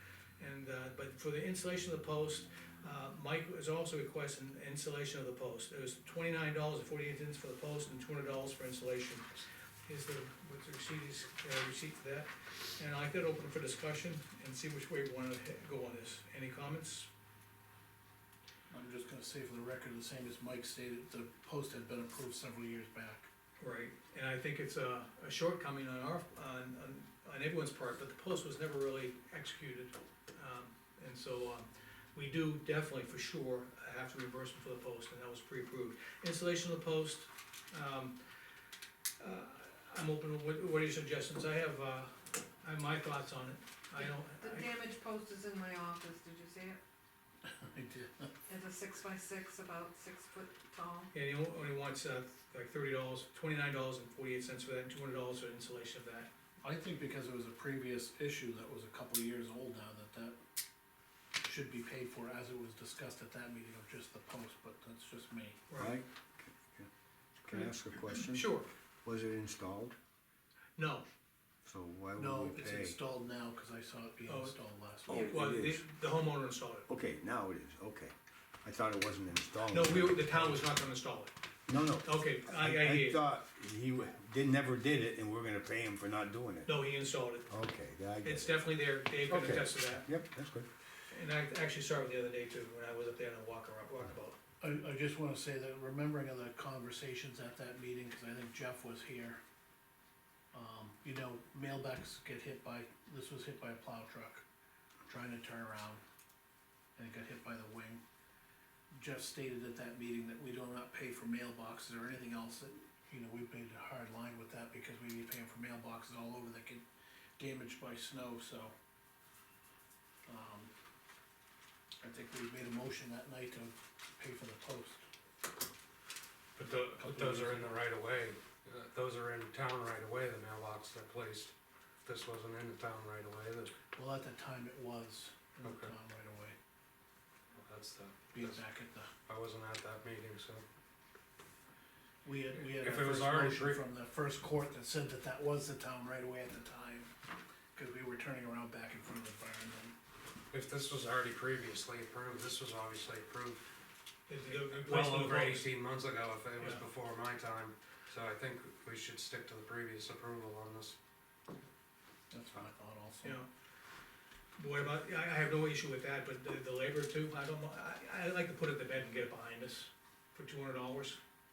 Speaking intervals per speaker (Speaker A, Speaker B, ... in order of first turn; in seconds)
Speaker A: 0.4-9.3, 9.9-17.1, 23.6-38.2, 39.2-44.7, 51.1-56.3, 65.7-66.0, 67.5-68.7, 70.8-71.1, 74.3-74.6, 75.1-76.9, 79.7-81.3, 82.0-83.2, 86.7-87.5, 88.2-90.1, 91.1-94.4, 154.3-155.7, 156.6-156.8, 164.6-171.2
Speaker B: 18.7-23.3, 47.5-48.3, 56.6-60.4, 61.5-65.7, 72.2-75.3, 94.6-99.4, 100.5-104.4, 105.1-106.0, 107.0-108.0, 108.9-116.8, 117.4-118.7, 120.3-120.7, 122.0-125.0, 127.0-127.8, 133.9-136.6, 138.3-139.1, 142.2-147.1, 147.8-149.9, 162.3-163.4
Speaker C: 44.0-46.8, 48.5-51.1
Speaker D: 65.8-66.9, 67.4-70.0, 71.6-73.0, 75.1-75.8, 76.9-80.7, 81.7-86.8, 87.5-90.7
Speaker E: 126.6-133.7, 135.6-135.9, 137.5-138.6, 139.3-140.6, 142.7-143.8, 150.5-153.6, 154.7-161.0